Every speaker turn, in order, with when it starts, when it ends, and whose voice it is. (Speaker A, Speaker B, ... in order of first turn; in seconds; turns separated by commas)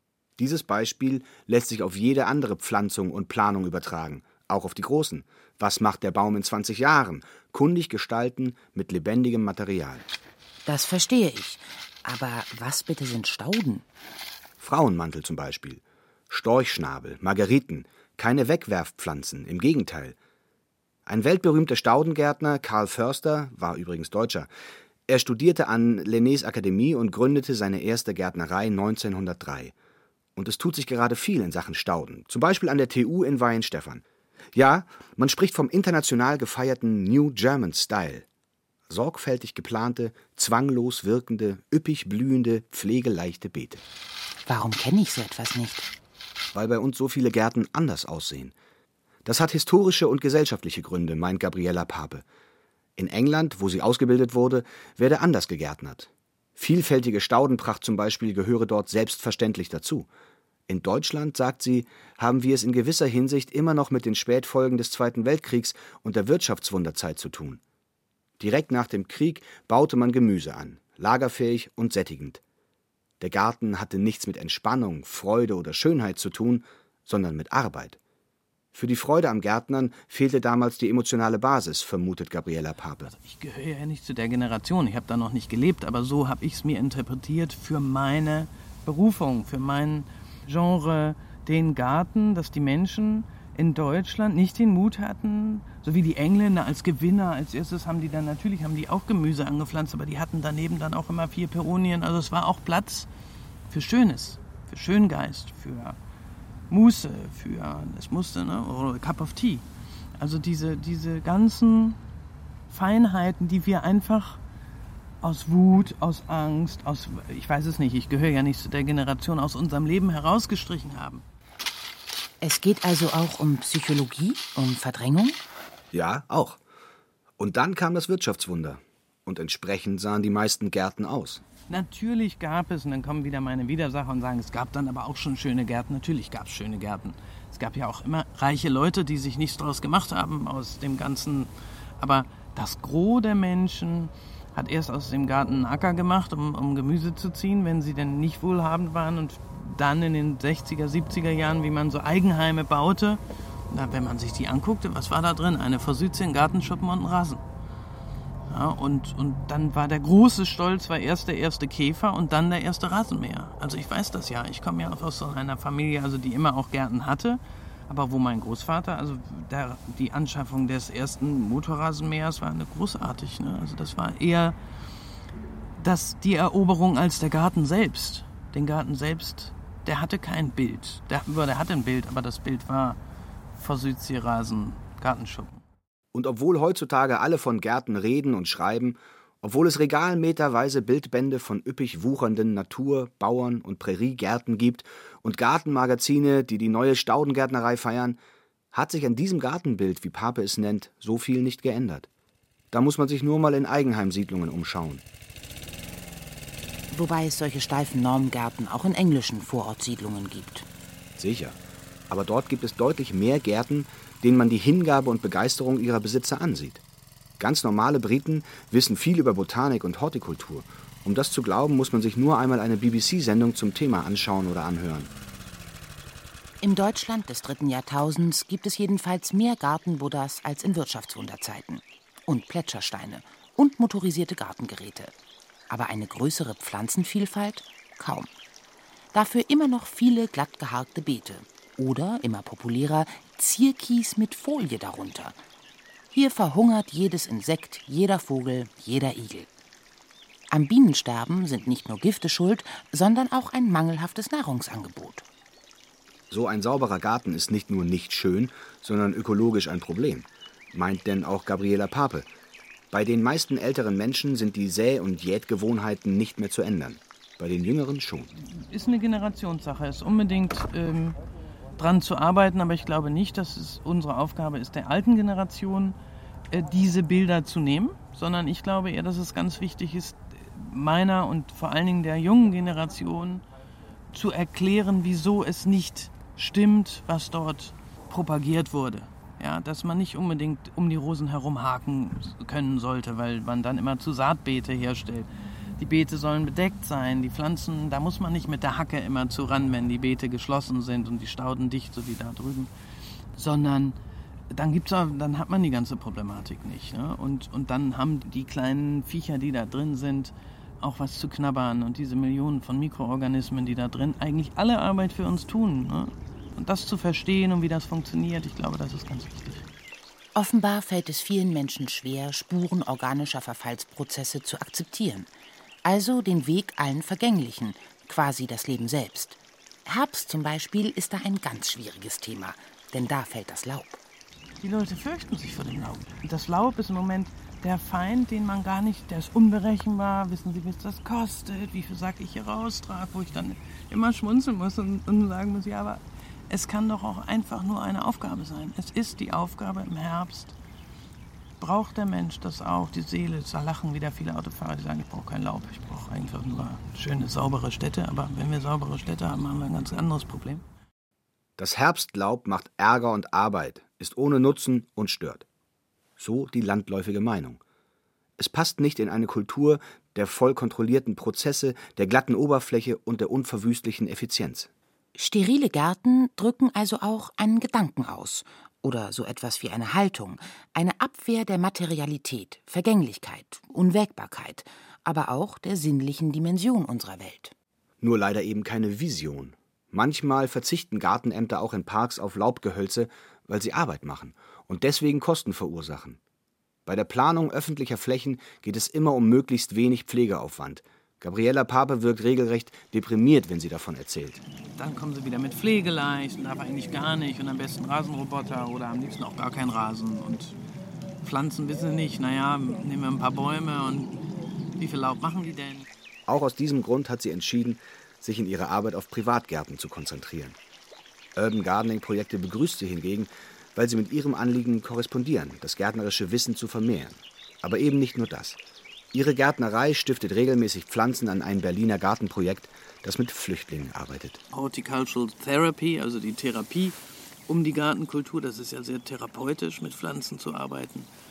Speaker A: 0.4-10.1, Speaker B: 10.7-13.8, Speaker A: 14.6-20.2, Speaker A: 21.1-24.5, Speaker A: 25.1-29.7, Speaker A: 30.4-34.0, Speaker A: 34.5-38.3, Speaker A: 38.9-43.8, Speaker B: 44.5-45.9, Speaker A: 46.5-48.5, Speaker A: 49.2-52.2, Speaker A: 53.0-60.1, Speaker A: 60.7-67.6, Speaker A: 68.4-72.4, Speaker A: 73.2-78.0, Speaker A: 78.7-83.1, Speaker C: 83.1-103.1, Speaker C: 103.7-106.0, Speaker C: 106.7-109.7, Speaker C: 110.2-112.0, Speaker C: 112.7-114.4, Speaker C: 115.2-121.2, Speaker B: 122.4-125.4, Speaker A: 125.9-126.6, Speaker A: 127.4-131.4, Speaker C: 131.7-153.2, Speaker C: 153.7-157.4, Speaker C: 158.5-174.6, Speaker C: 175.8-183.0, Speaker C: 183.6-185.6, Speaker A: 186.1-198.2, Speaker A: 198.7-202.1, Speaker A: 202.7-205.0, Speaker B: 206.9-210.7, Speaker A: 211.2-211.6, Speaker A: 212.1-216.8, Speaker A: 217.4-225.1, Speaker B: 226.6-235.1, Speaker B: 235.7-238.3, Speaker B: 239.1-245.4, Speaker B: 246.1-249.5, Speaker B: 250.5-255.2, Speaker A: 256.3-262.3, Speaker A: 262.9-268.3, Speaker C: 268.4-271.2, Speaker C: 271.8-276.0, Speaker C: 276.5-283.4, Speaker C: 284.1-302.7, Speaker C: 303.4-304.0, Speaker C: 304.5-319.7, Speaker B: 320.4-325.3, Speaker B: 325.9-334.0, Speaker C: 334.6-350.6, Speaker C: 351.6-360.6, Speaker A: 361.6-365.4, Speaker A: 366.2-367.6, Speaker A: 368.4-374.7, Speaker B: 375.1-387.5, Speaker A: 388.0-396.2, Speaker A: 396.9-404.4, Speaker C: 404.8-410.6, Speaker C: 411.2-414.2, Speaker C: 414.8-415.9, Speaker A: 416.3-420.6, Speaker A: 421.4-428.6, Speaker A: 429.1-434.4, Speaker C: 434.5-437.0, Speaker C: 437.5-441.1